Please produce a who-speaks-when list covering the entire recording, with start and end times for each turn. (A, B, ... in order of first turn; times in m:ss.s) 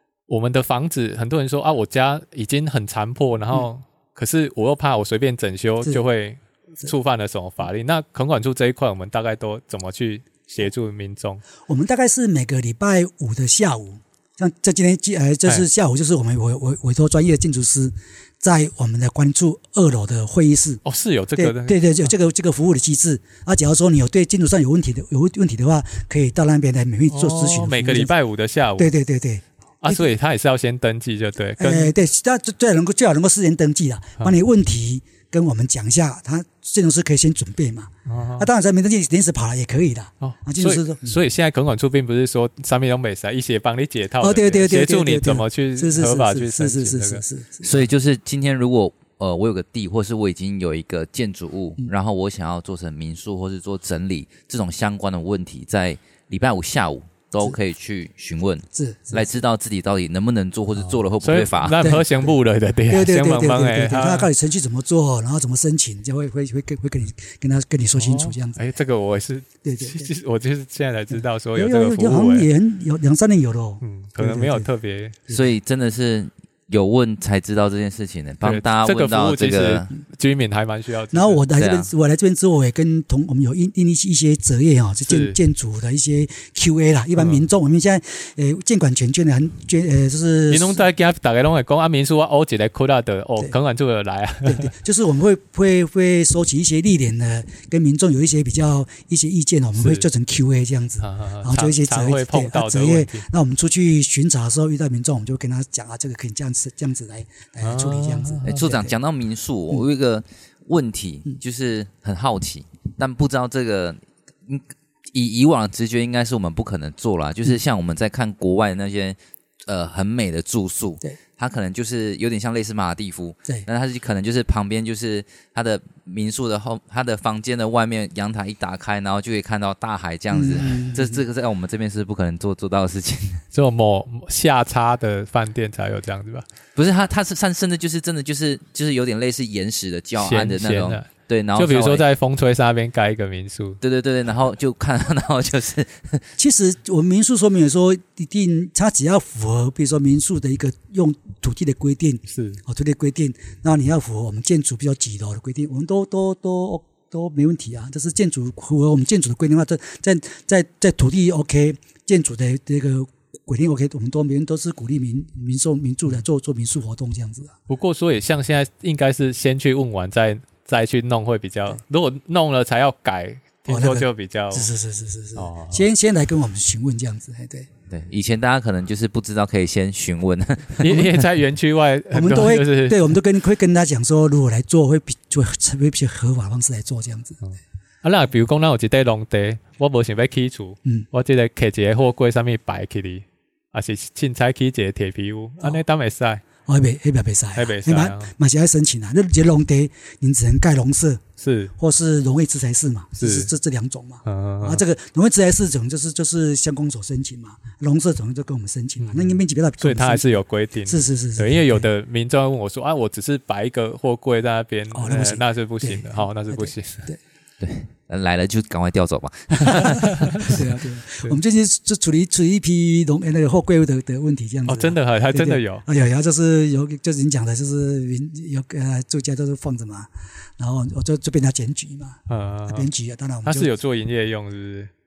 0:00.3-0:11.4 A
0:11.7-0:20.8 B
0:20.8-0:22.1 A
0:21.4-0:28.1 B
0:27.1-0:28.9 A
0:28.8-0:30.1 B
0:29.8-0:31.9 A
0:31.6-0:41.2 B
0:38.0-0:38.5 A
0:40.2-0:47.2 A
0:44.2-0:47.8 B
0:47.6-1:01.8 C
0:58.7-0:59.3 B
1:00.8-1:04.3 A
1:01.8-1:02.3 B
1:02.9-1:08.6 B
1:08.0-1:12.5 A
1:09.6-1:10.1 B
1:11.5-1:14.7 B
1:13.8-1:15.2 A
1:15.3-1:19.9 C
1:18.4-1:21.4 A
1:21.1-1:30.8 B
1:21.6-1:21.9 C
1:25.0-1:25.4 A
1:27.2-1:27.4 A
1:30.5-1:34.7 A
1:34.4-1:48.9 B
1:39.8-1:40.0 A
1:41.0-1:43.2 A
1:47.6-1:48.7 A
1:48.4-2:13.4 C
2:10.3-2:11.2 B
2:13.5-2:16.4 A
2:16.7-2:22.0 C
2:20.2-2:23.8 A
2:23.8-2:26.2 C
2:26.4-2:47.6 B
2:32.3-2:32.6 A
2:47.7-2:54.7 A
2:53.7-2:57.7 B
2:55.4-2:55.8 A
2:57.9-3:01.2 C
3:00.8-3:03.2 A
3:02.1-3:07.4 B
3:07.4-3:16.4 A
3:16.6-3:21.2 B
3:17.5-3:18.3 A
3:21.4-3:21.7 A
3:21.8-3:30.3 B
3:23.2-3:23.5 A
3:24.2-3:24.8 A
3:29.0-3:37.1 A
3:30.9-3:31.8 B
3:34.9-3:37.2 B
3:37.6-3:40.5 C
3:39.7-3:40.6 A
3:39.7-3:53.7 B
3:44.7-3:45.8 A
3:52.3-3:52.9 A
3:53.4-3:54.9 A